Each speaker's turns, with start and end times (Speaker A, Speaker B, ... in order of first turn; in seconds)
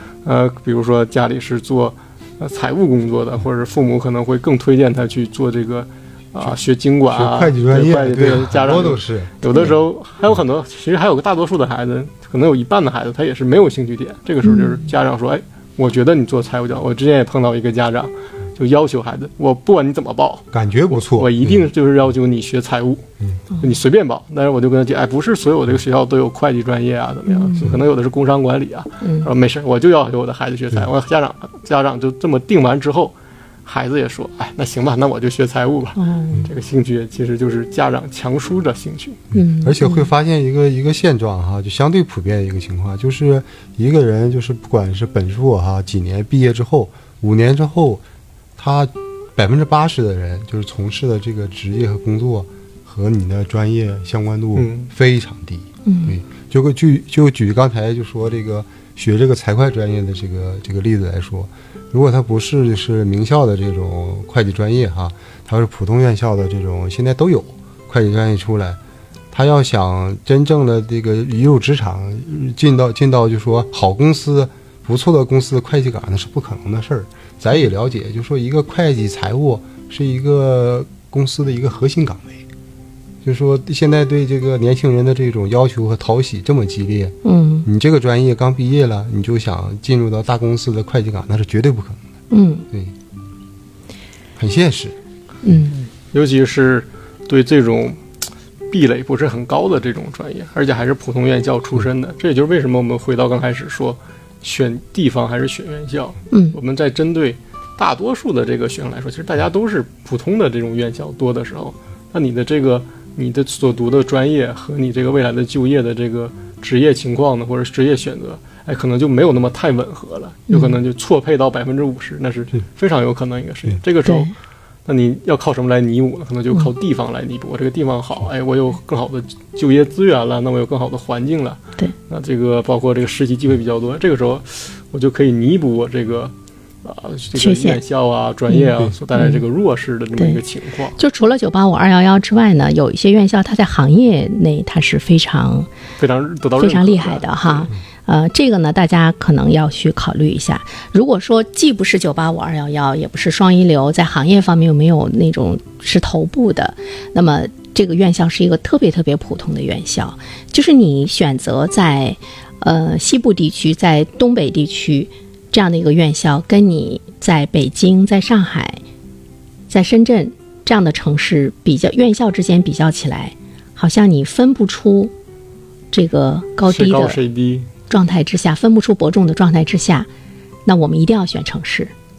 Speaker A: 0.2-39.2, 54.6-54.9, 95.8-98.0, 98.7-124.3, 124.9-136.3, 136.8-141.0, 146.0-147.7, 176.7-177.7
Speaker B: 7.1-9.4, 20.5-21.7, 39.3-48.0, 48.6-68.8, 69.3-82.4, 83.2-92.0, 94.4-95.0
Speaker C: 14.4-14.8, 27.3-27.8, 29.0-29.3, 36.0-36.5, 39.3-40.1, 55.9-56.2, 87.2-87.7, 92.3-92.7, 95.4-95.8, 106.3-106.6, 120.5-120.8, 124.0-124.3, 137.4-137.8, 138.5-139.4, 140.2-140.4, 141.0-145.7, 146.6-168.8, 169.7-175.1, 175.9-177.2, 177.9-180.1, 180.7-181.9